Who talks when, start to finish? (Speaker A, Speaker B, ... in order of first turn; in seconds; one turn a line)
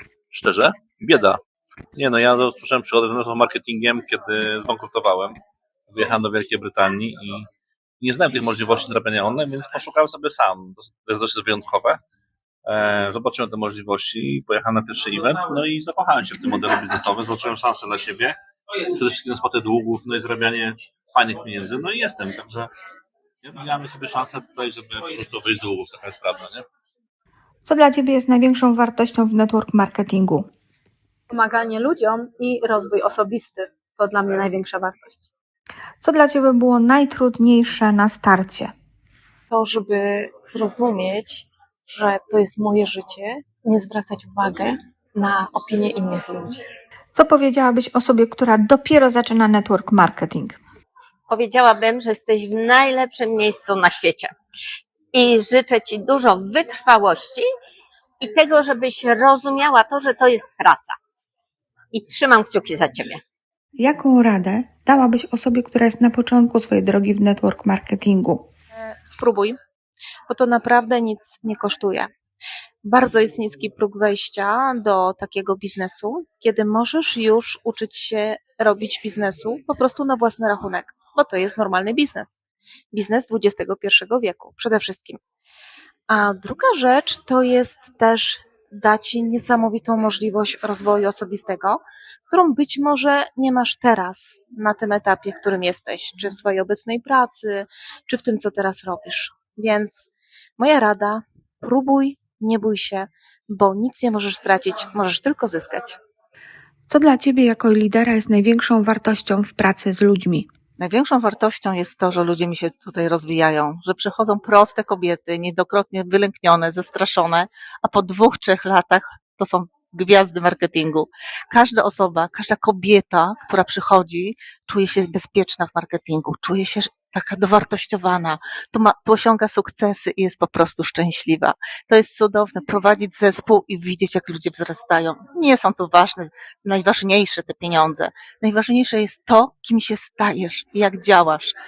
Speaker A: 0.3-1.4
Speaker A: 1.9-5.3
Speaker A: 5.9-7.5
Speaker A: 8.0-12.0
Speaker A: 12.7-18.4
Speaker A: 18.9-22.7
Speaker A: 23.4-26.6
Speaker B: 27.6-30.5
Speaker C: 31.3-35.3
Speaker B: 36.0-38.7
Speaker D: 39.5-46.6
Speaker B: 47.1-50.6
Speaker E: 51.3-54.3
Speaker E: 55.1-57.5
Speaker E: 58.2-61.0
Speaker E: 61.9-63.2
Speaker B: 63.8-68.5
Speaker F: 68.7-69.5
Speaker F: 70.3-72.1
Speaker F: 72.8-82.4
Speaker F: 82.9-85.2
Speaker F: 86.1-106.0
Speaker B: 106.9-110.5
Speaker G: 110.8-141.5